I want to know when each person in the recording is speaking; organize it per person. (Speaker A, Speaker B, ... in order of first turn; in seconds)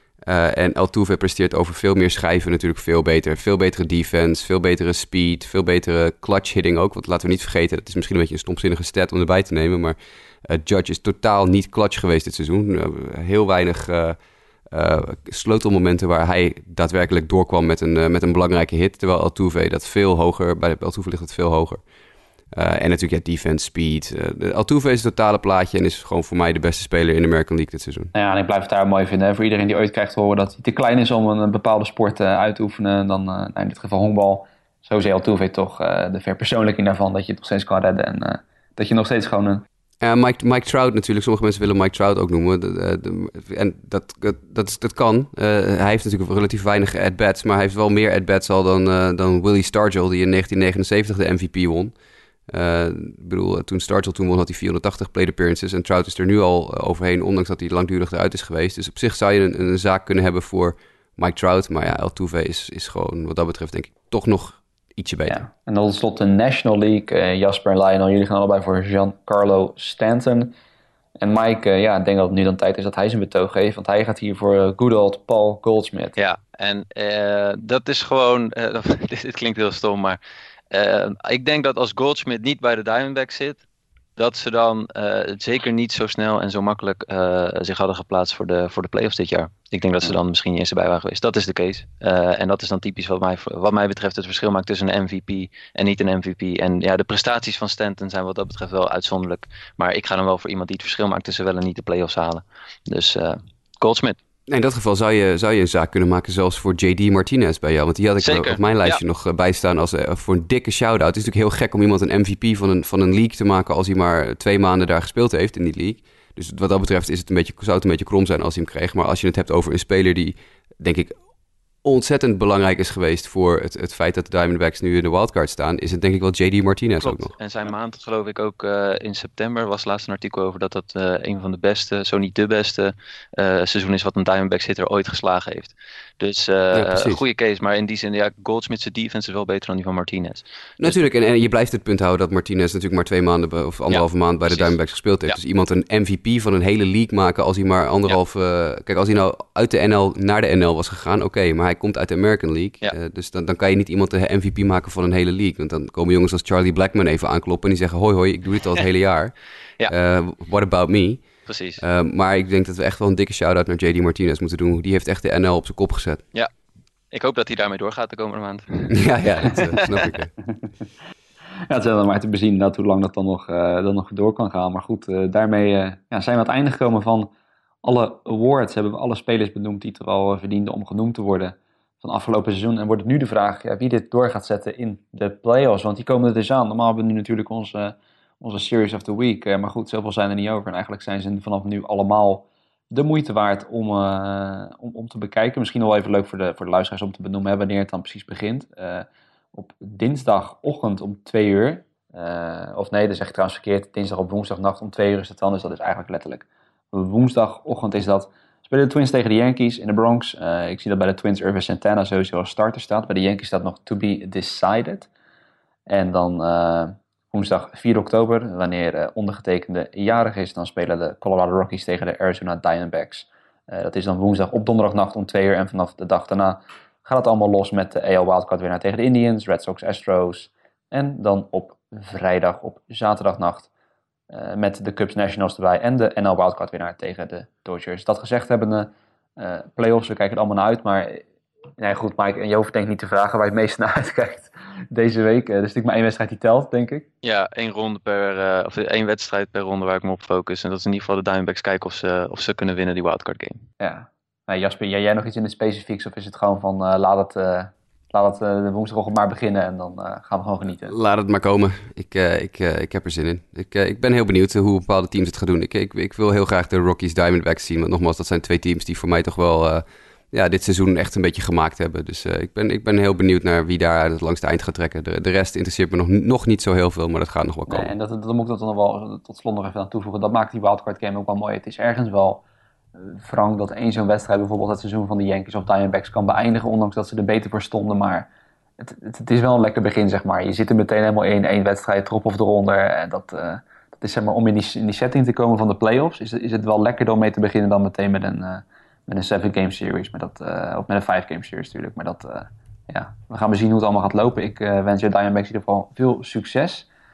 Speaker A: 0.2-14.2, 14.7-21.8, 22.5-28.1, 40.0-51.9, 52.5-65.4, 104.5-121.1, 121.8-127.3, 136.7-137.2, 140.8-159.4, 159.9-166.2, 168.9-170.3, 260.9-277.9
Speaker B: 28.1-39.6, 65.3-70.5, 71.2-76.2, 171.7-177.3, 177.8-215.1, 215.9-233.7, 234.3-241.2, 241.8-247.1, 253.8-260.9, 277.7-282.4, 283.0-306.9
Speaker C: 76.2-80.2, 80.7-83.6, 84.2-104.2, 108.2-109.0, 127.0-141.0, 143.9-144.8, 161.5-161.8, 167.1-170.1, 247.2-253.6